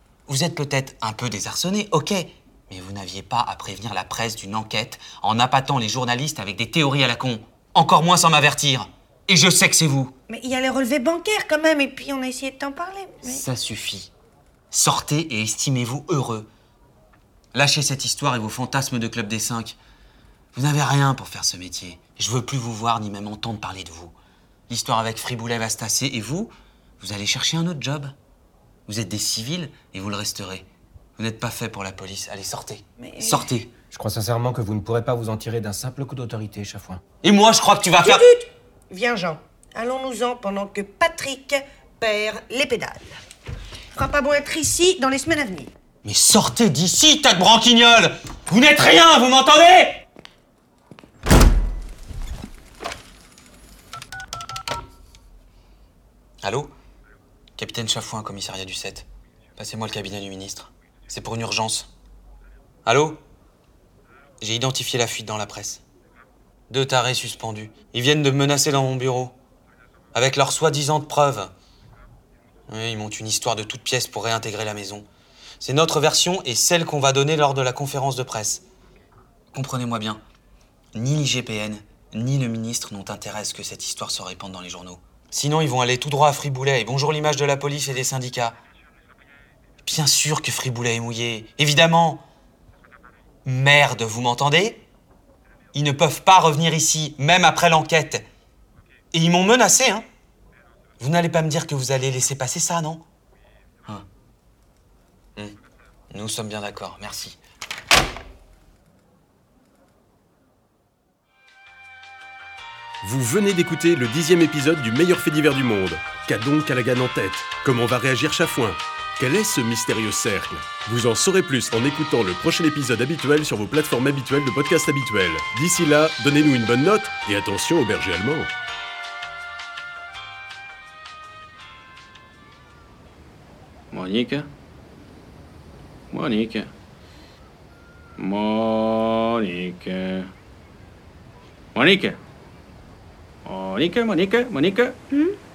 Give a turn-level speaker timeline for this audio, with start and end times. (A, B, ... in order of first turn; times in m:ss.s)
0:00.3-0:10.1 A
0:10.3-0:13.4 B
0:13.2-0:14.1 A
0:14.7-0:16.5 A
0:17.5-0:19.8 A
0:20.5-0:24.2 A
0:24.7-0:28.2 A
0:28.9-0:30.7 A
0:31.2-0:33.7 A
0:33.9-0:37.0 C
0:37.2-0:38.2 A
0:38.0-0:43.2 B
0:43.9-0:45.7 B
0:46.0-0:50.0 A
0:56.4-0:56.7 A
0:57.6-0:59.1 A
0:59.6-1:01.9 A
1:02.9-1:03.2 A
1:04.4-1:05.8 A
1:06.7-1:09.4 A
1:10.2-1:11.5 A
1:12.7-1:15.1 A
1:15.6-1:18.6 A
1:19.5-1:20.2 A
1:20.9-1:28.6 A
1:29.8-1:32.2 A
1:33.4-1:34.8 A
1:35.7-1:38.2 A
1:39.1-1:40.1 A
1:41.0-1:43.1 A
1:46.1-1:47.4 A
1:53.0-2:08.5 D
2:13.9-2:14.5 E
2:16.1-2:16.7 E
2:18.2-2:20.3 E
2:21.7-2:22.2 E
2:23.4-2:25.2 E